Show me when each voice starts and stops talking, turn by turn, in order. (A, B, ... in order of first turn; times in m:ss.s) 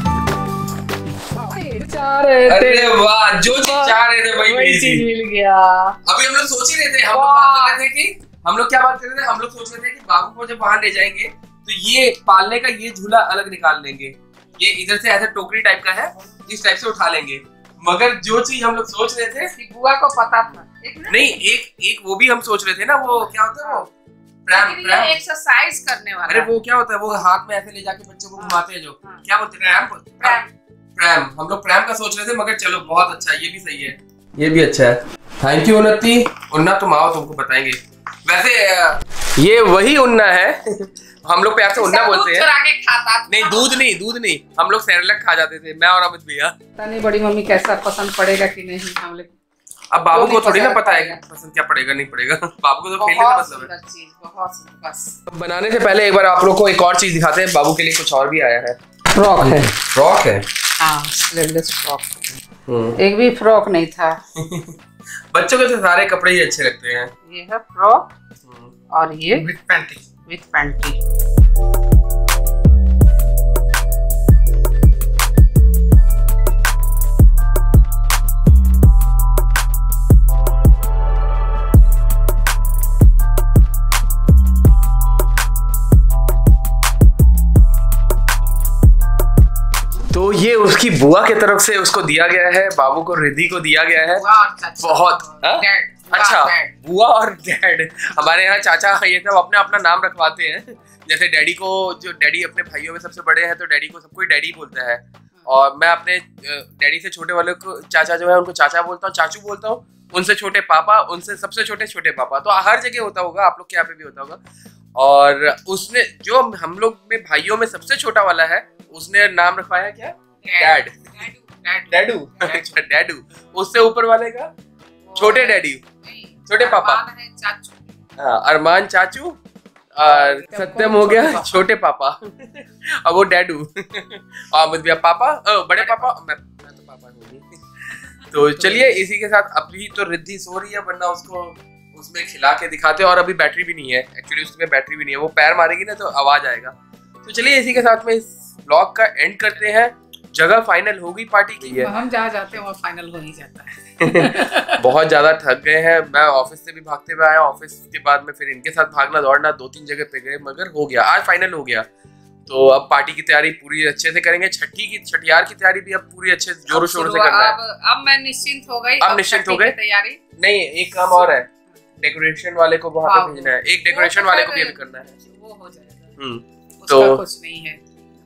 0:01.3-0:06.0 A
0:02.4-0:05.0 B
0:06.0-0:19.5 B
0:07.0-0:07.8 A
0:19.4-0:21.3 A
0:21.1-0:23.9 B
0:23.6-0:23.9 A
0:24.4-0:25.2 B
0:24.5-0:26.5 A
0:26.3-0:30.4 B
0:28.4-0:29.2 A
0:30.2-0:30.5 A
0:31.0-0:42.5 B
0:41.7-0:43.9 A
0:43.3-0:46.5 B
0:46.8-0:49.3 A
0:49.9-0:53.7 B
0:50.1-0:51.2 A
0:53.0-0:55.2 A
0:55.3-0:58.8 B
0:59.1-0:59.7 A
0:59.4-1:00.4 B
1:00.8-1:02.1 A
1:02.7-1:03.0 B
1:03.0-1:04.2 A
1:04.4-1:04.8 B
1:05.3-1:07.1 B
1:07.2-1:08.1 A
1:08.4-1:08.7 B
1:08.9-1:11.0 A
1:30.1-1:34.2 B
1:34.1-1:36.7 A
1:34.8-1:54.4 B
1:55.0-2:00.9 B
2:00.4-2:02.8 A
2:01.9-2:04.5 B
2:05.0-2:08.0 A
2:05.2-2:05.8 B
2:06.5-2:07.0 B
2:08.2-2:09.4 B
2:09.9-2:31.9 B
2:10.0-2:11.6 A
2:15.7-2:16.1 A
2:18.0-2:19.0 A
2:31.6-2:34.9 A
2:34.0-2:41.8 B
2:42.5-2:47.6 B
2:46.7-2:50.2 A
2:49.0-2:49.7 B
2:50.4-2:51.5 B
2:51.0-2:51.4 A
2:52.0-2:55.1 B
2:53.0-2:56.1 A
2:56.2-2:57.2 B
2:56.8-2:57.8 A